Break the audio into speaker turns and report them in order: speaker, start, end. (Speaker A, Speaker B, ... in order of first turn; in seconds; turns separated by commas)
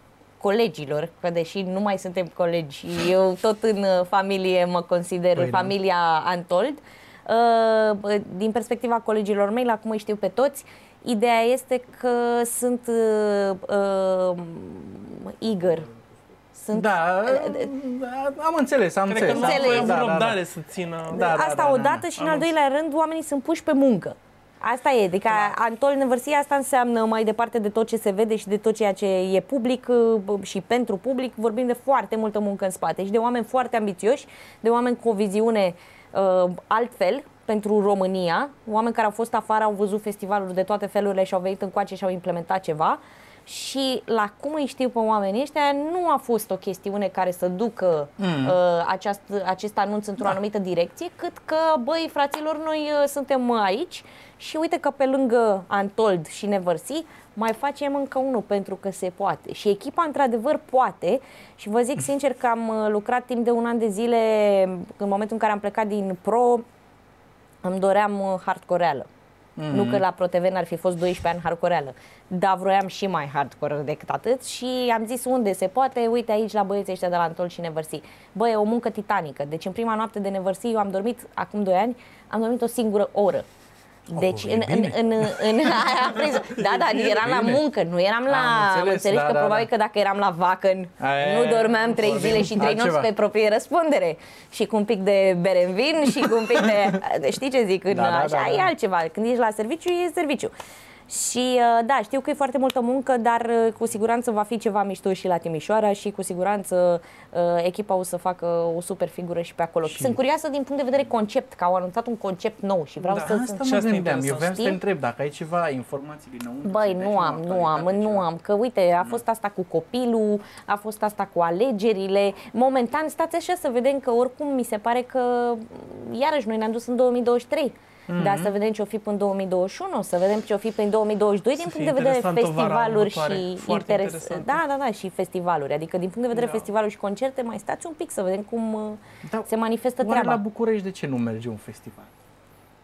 Speaker A: 0.4-15.9, Speaker B: 5.4-5.7, Speaker A: 16.6-17.7, Speaker B: 16.7-20.4, Speaker C: 19.1-21.4, Speaker A: 19.2-20.1, Speaker B: 21.1-22.1, Speaker A: 21.1-66.6, Speaker C: 22.2-22.5, Speaker B: 48.2-48.6, Speaker A: 67.6-69.1, Speaker B: 69.6-70.0, Speaker A: 69.7-83.5, Speaker A: 84.1-100.5, Speaker B: 84.1-85.8, Speaker C: 86.4-87.2, Speaker B: 87.0-87.6, Speaker B: 88.3-89.7, Speaker B: 91.0-93.1, Speaker B: 97.9-98.7, Speaker A: 101.1-113.8, Speaker B: 109.9-110.2, Speaker C: 113.0-114.7, Speaker B: 113.2-118.2, Speaker A: 114.4-114.8, Speaker A: 116.6-140.4, Speaker B: 128.1-128.5, Speaker C: 131.6-134.6, Speaker C: 136.3-136.7, Speaker B: 140.0-142.1